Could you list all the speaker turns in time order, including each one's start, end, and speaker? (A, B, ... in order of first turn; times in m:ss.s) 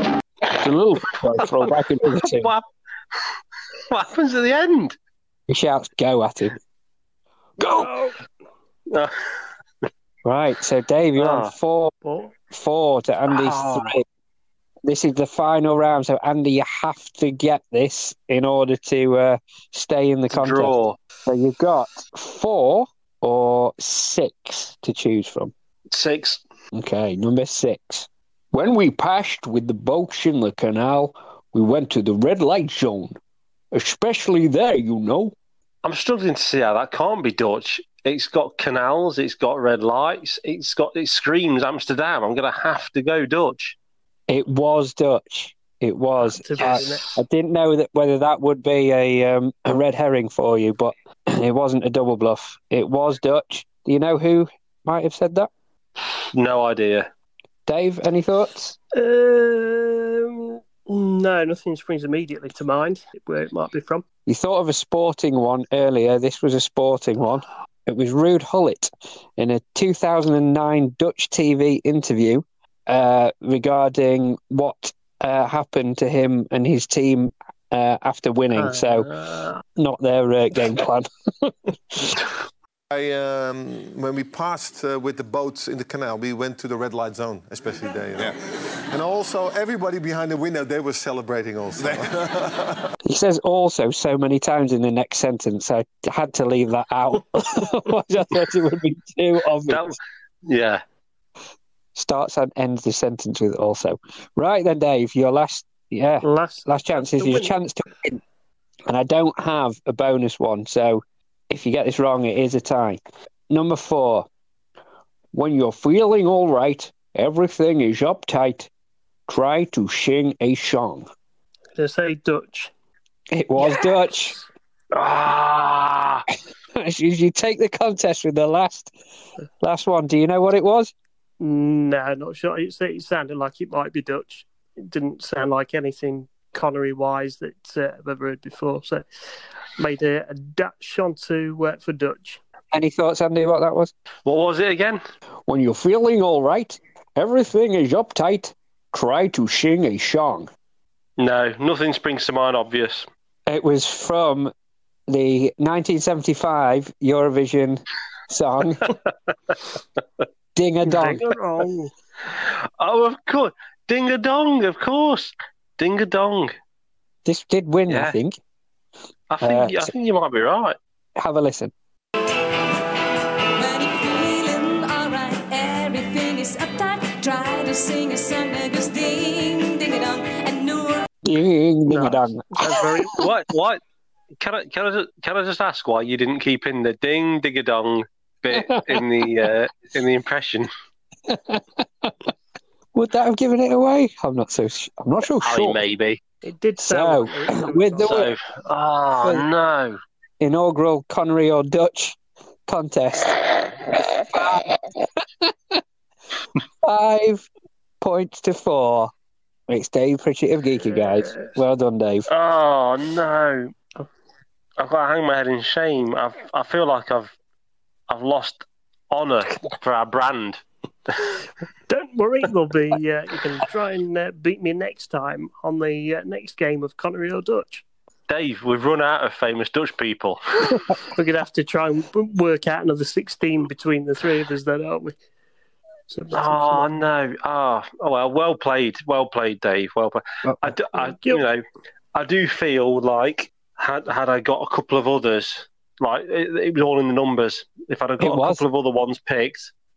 0:00.6-0:02.5 A
0:02.2-0:02.6 B
0:03.9-0:05.0 B
0:05.5-0:06.6 A
0:07.8-0:08.1 C
0:10.2-0:11.9 A
0:11.2-0:11.5 B
0:12.0-0:12.4 C
0:12.5-0:14.0 A
0:13.3-0:14.0 B
0:14.8-0:25.5 A
0:20.3-0:21.0 B
0:25.9-0:26.4 B
0:26.7-0:33.2 A
0:33.7-0:35.4 A
0:35.8-0:43.8 B
0:44.3-0:55.5 A
0:46.2-0:47.2 C
0:46.6-0:46.9 B
0:56.3-0:57.1 B
0:57.7-0:58.8 A
0:58.9-1:04.0 C
1:04.3-1:19.1 A
1:18.6-1:19.6 C
1:19.8-1:22.2 A
1:22.9-1:28.4 D
1:28.9-1:32.8 D
1:33.0-1:40.0 A
1:39.7-1:40.8 B
1:42.0-1:48.2 A
1:46.2-1:47.5 C
1:48.9-1:54.3 A
1:55.3-1:58.7 A
1:59.3-2:01.1 A
2:01.8-2:02.7 C
2:03.3-2:04.4 A
2:04.9-2:06.2 B
2:06.7-2:08.9 A
2:09.6-2:10.9 A
2:11.4-2:19.1 C
2:19.8-2:22.4 C
2:22.7-2:23.9 A
2:24.3-2:25.0 B
2:25.5-2:30.5 A
2:31.2-2:33.1 B
2:33.5-2:34.5 A
2:35.1-2:38.9 A
2:40.6-2:41.3 A
2:40.8-2:41.9 C
2:42.3-2:46.5 B
2:47.2-2:48.4 A
2:47.9-2:48.2 B
2:49.3-2:50.8 B
2:49.4-2:49.9 A
2:51.2-2:51.7 A
2:53.6-3:01.1 E
3:01.2-3:03.1 A
3:01.9-3:03.2 C
3:03.2-3:03.8 B
3:04.4-3:10.7 B
3:08.5-3:09.0 A
3:11.3-3:12.1 A
3:12.9-3:15.8 A
3:15.4-3:16.2 B
3:16.4-3:18.2 C
3:16.8-3:18.3 A
3:18.0-3:20.0 B
3:20.4-3:25.8 A
3:26.8-3:27.5 A
3:28.0-3:29.1 A
3:29.7-3:32.3 A
3:32.3-3:33.7 B
3:34.8-3:37.3 B
3:38.1-3:40.6 B
3:41.9-3:47.8 C
3:48.3-3:50.4 B
3:51.1-3:55.2 C
3:56.1-3:57.0 C
3:56.3-4:01.6 B
4:00.4-4:00.8 A
4:01.0-4:01.4 C
4:02.1-4:09.7 B
4:08.2-4:08.6 A